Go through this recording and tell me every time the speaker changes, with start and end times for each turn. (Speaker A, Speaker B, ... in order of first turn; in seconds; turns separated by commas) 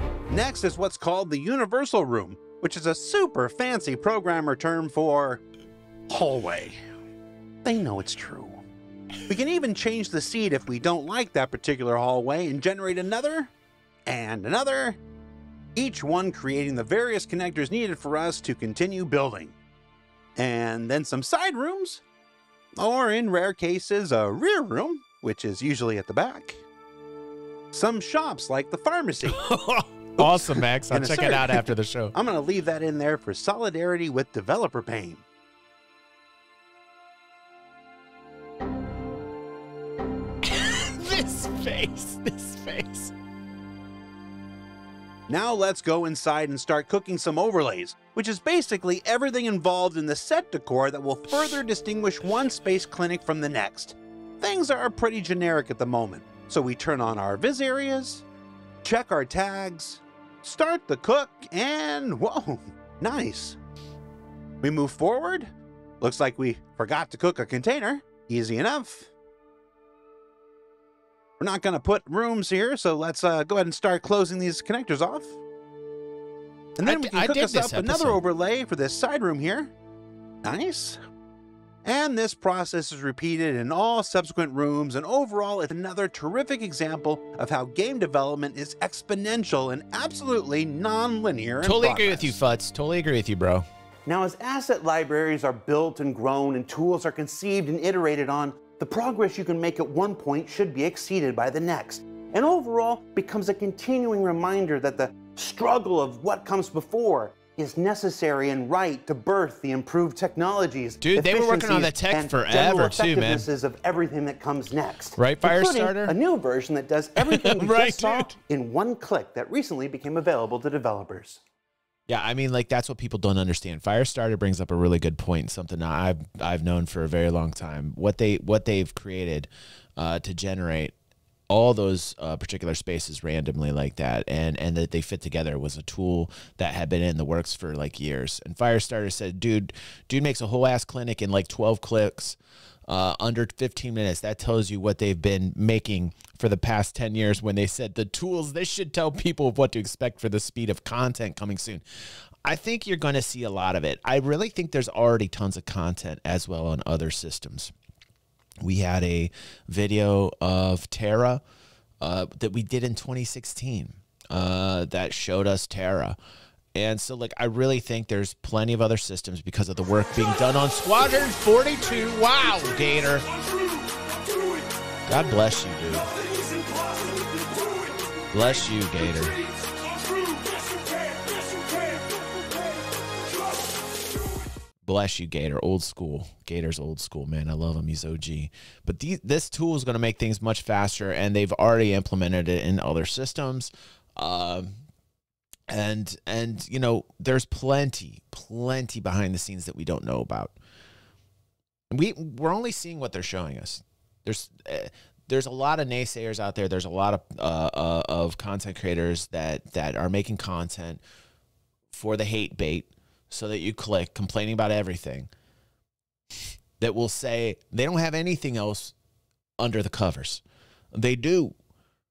Speaker A: 0.3-5.4, Speaker A: 6.1-6.8, Speaker A: 7.6-8.6, Speaker A: 9.3-13.5, Speaker A: 14.1-15.0, Speaker A: 15.8-19.6, Speaker A: 20.4-22.0, Speaker A: 22.8-26.6, Speaker A: 27.7-29.4, Speaker B: 29.3-32.1, Speaker A: 30.2-35.2, Speaker B: 40.4-43.1, Speaker A: 45.3-58.2, Speaker A: 58.8-63.6, Speaker A: 64.6-65.5, Speaker A: 66.0-69.1, Speaker A: 71.4-75.4, Speaker A: 76.8-79.7, Speaker B: 76.8-78.2, Speaker A: 80.4-81.0, Speaker A: 81.8-92.4, Speaker B: 91.6-93.7, Speaker A: 94.1-121.4, Speaker B: 111.0-113.5, Speaker B: 115.2-116.2, Speaker B: 117.3-118.3, Speaker B: 122.1-130.9, Speaker B: 131.5-157.7, Speaker B: 158.6-161.4, Speaker B: 162.0-166.2, Speaker B: 166.8-173.3, Speaker B: 175.1-176.2, Speaker B: 178.3-179.4, Speaker B: 184.8-194.7, Speaker B: 195.7-200.6, Speaker B: 201.9-211.0, Speaker B: 211.9-215.3, Speaker B: 216.8-218.9, Speaker B: 219.6-220.4, Speaker B: 220.9-221.6